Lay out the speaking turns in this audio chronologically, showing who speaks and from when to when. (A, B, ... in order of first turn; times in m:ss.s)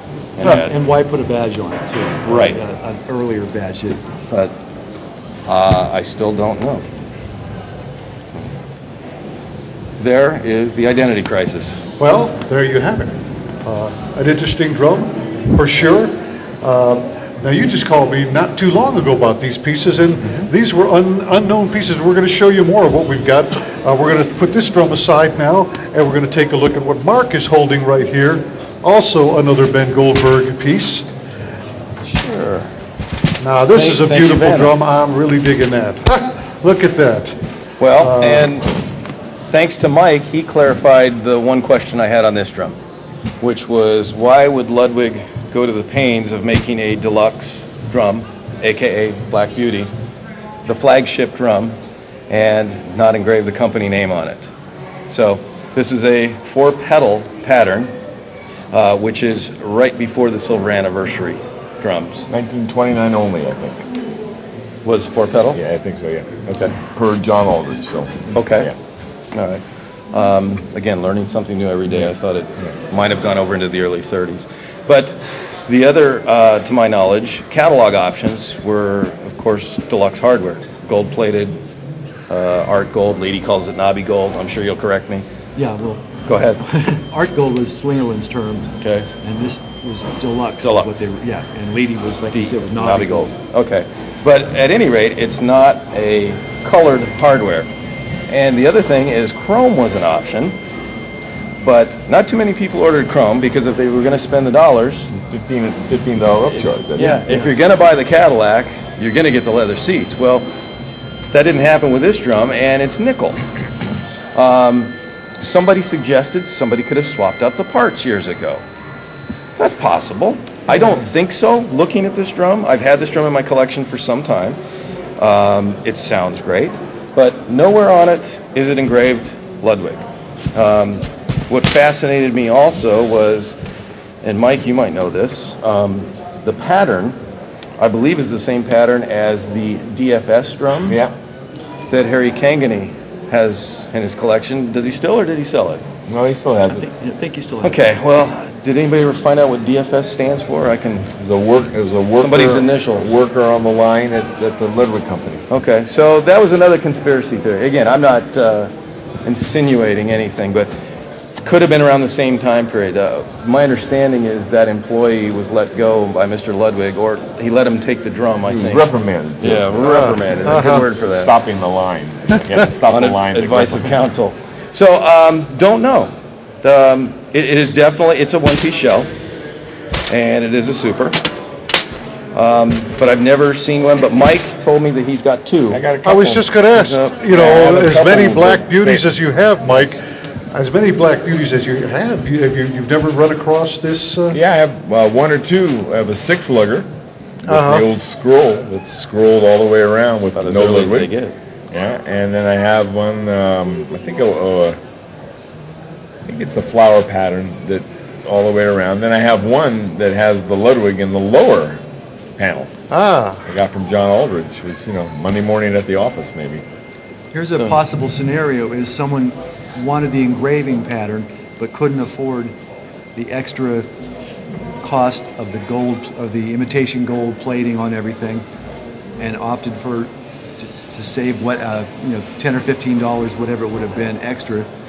0:00.4-0:00.7 A
0:00.4-0:04.0 B
0:02.3-0:02.6 A
0:05.5-0:06.8 A
0:10.0-0:11.8 A
0:12.0-0:31.1 C
0:32.0-0:32.7 A
0:33.4-0:37.4 C
0:33.7-0:34.8 A
0:37.8-0:38.7 A
0:38.0-0:38.5 C
0:39.5-0:42.8 A
0:43.4-0:49.9 A
0:50.6-0:51.8 A
0:52.3-0:54.5 A
0:55.1-0:57.9 A
0:58.7-1:02.3 A
1:02.3-1:03.9 D
1:04.8-1:05.6 A
1:05.5-1:08.8 D
1:08.3-1:08.7 A
1:09.3-1:21.6 A
1:22.3-1:25.2 A
1:25.6-1:26.1 B
1:26.2-1:26.6 A
1:26.6-1:28.7 B
1:28.8-1:29.1 A
1:29.2-1:33.3 B
1:30.6-1:31.0 A
1:32.3-1:37.7 A
1:38.3-1:40.5 A
1:41.6-1:45.1 A
1:45.1-1:47.2 D
1:46.9-1:50.4 A
1:47.0-1:47.5 B
1:51.3-1:53.4 A
1:54.3-1:58.6 A
1:59.6-2:04.6 A
2:05.2-2:10.0 A
2:10.5-2:13.6 A
2:14.2-2:17.2 A
2:17.8-2:21.0 A
2:20.8-2:21.1 D
2:21.9-2:25.8 A
2:26.1-2:26.8 D
2:26.7-2:27.8 B
2:27.6-2:31.1 A
2:31.1-2:35.4 D
2:32.2-2:33.1 A
2:35.5-2:38.7 A
2:39.2-2:40.7 A
2:41.4-2:48.9 A
2:48.5-2:49.8 D
2:49.4-2:51.3 A
2:49.8-2:50.8 C
2:50.4-2:54.0 D
2:52.9-2:59.1 A
3:00.1-3:01.2 A
3:02.3-3:05.8 A
3:05.7-3:06.5 D
3:06.0-3:10.0 C
3:06.7-3:07.8 A
3:07.3-3:09.0 D
3:10.5-3:14.4 C
3:14.3-3:16.9 D
3:17.4-3:21.1 D
3:17.5-3:17.9 C
3:20.4-3:21.3 A
3:21.7-3:24.8 D
3:26.2-3:31.8 D
3:32.4-3:32.7 D
3:32.9-3:33.4 C
3:33.4-3:36.6 D
3:37.3-3:42.5 B
3:43.1-3:43.9 B
3:44.8-3:48.4 B
3:49.2-3:54.7 B